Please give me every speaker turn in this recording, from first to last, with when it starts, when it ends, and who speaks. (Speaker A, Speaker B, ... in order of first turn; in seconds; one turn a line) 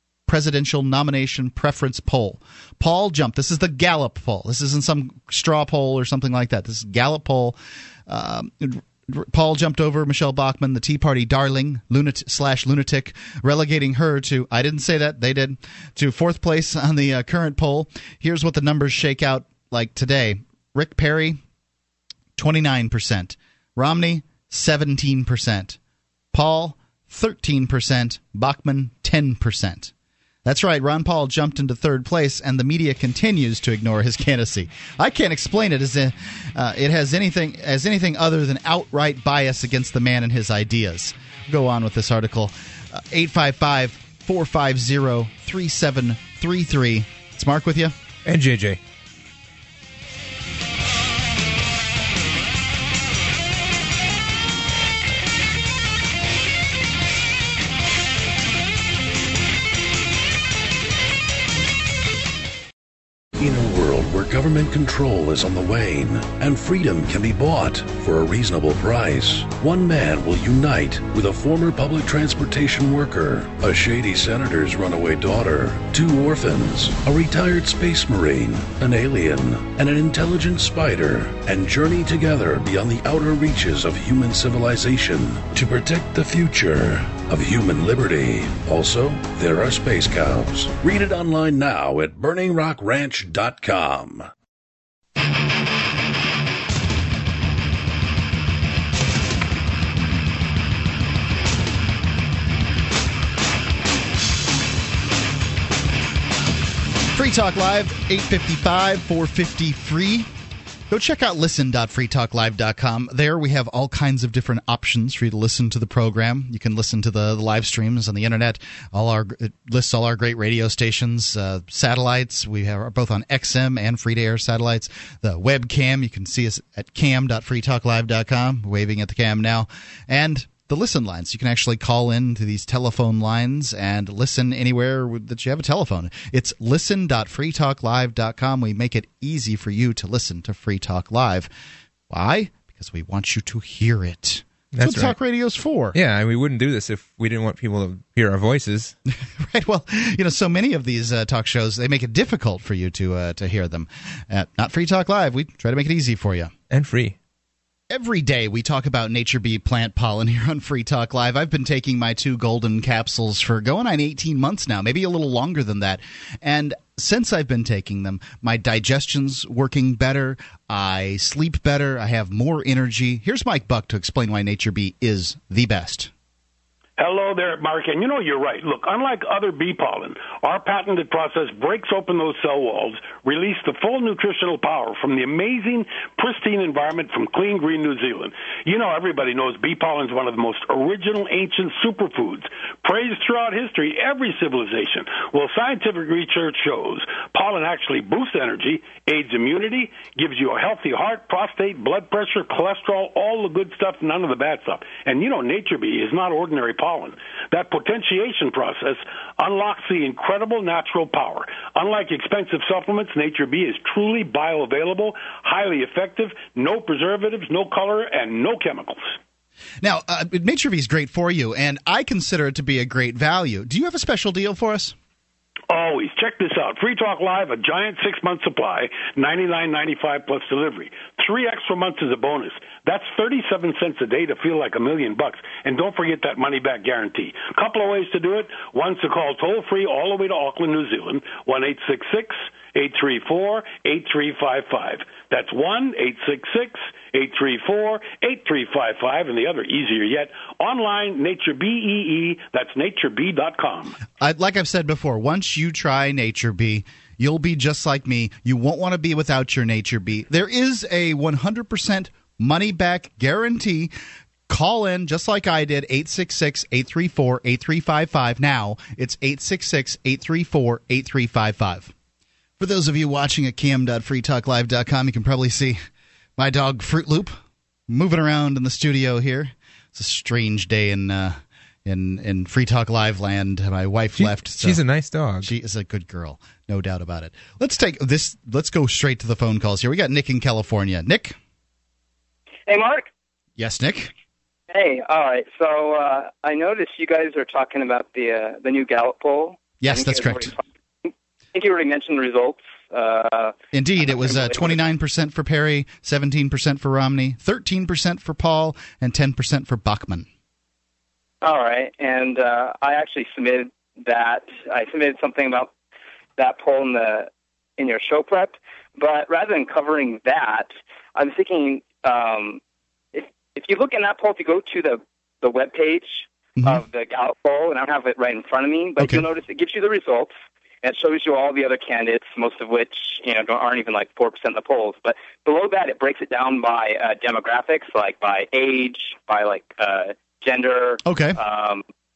Speaker A: 0.3-21.4
Speaker A: 22.4-25.8
Speaker A: 26.3-29.9
Speaker A: 30.4-47.9
Speaker B: 48.2-48.8
Speaker C: 63.4-94.3
Speaker A: 107.1-110.3
Speaker A: 110.9-141.5
Speaker A: 142.1-145.9
Speaker B: 144.7-145.2
Speaker B: 145.9-148.9
Speaker A: 149.2-156.5
Speaker B: 156.7-157.2
Speaker A: 157.9-176.1
Speaker D: 177.0-219.0
Speaker A: 219.8-224.9
Speaker D: 225.7-254.0
Speaker A: 254.2-263.9
Speaker A: 264.5-271.9
Speaker A: 272.6-275.8
Speaker A: 276.4-277.3
Speaker A: 277.9-284.8
Speaker B: 284.2-285.5
Speaker A: 285.4-291.4
Speaker E: 292.7-293.1
Speaker A: 293.6-294.1
Speaker E: 294.7-300.6
Speaker A: 299.8-300.5
Speaker E: 301.5-304.8
Speaker A: 303.7-310.3
Speaker E: 311.4-315.7
Speaker E: 316.4-322.6
Speaker E: 323.1-341.8
Speaker A: 326.6-326.8
Speaker A: 329.0-329.2
Speaker A: 341.1-341.4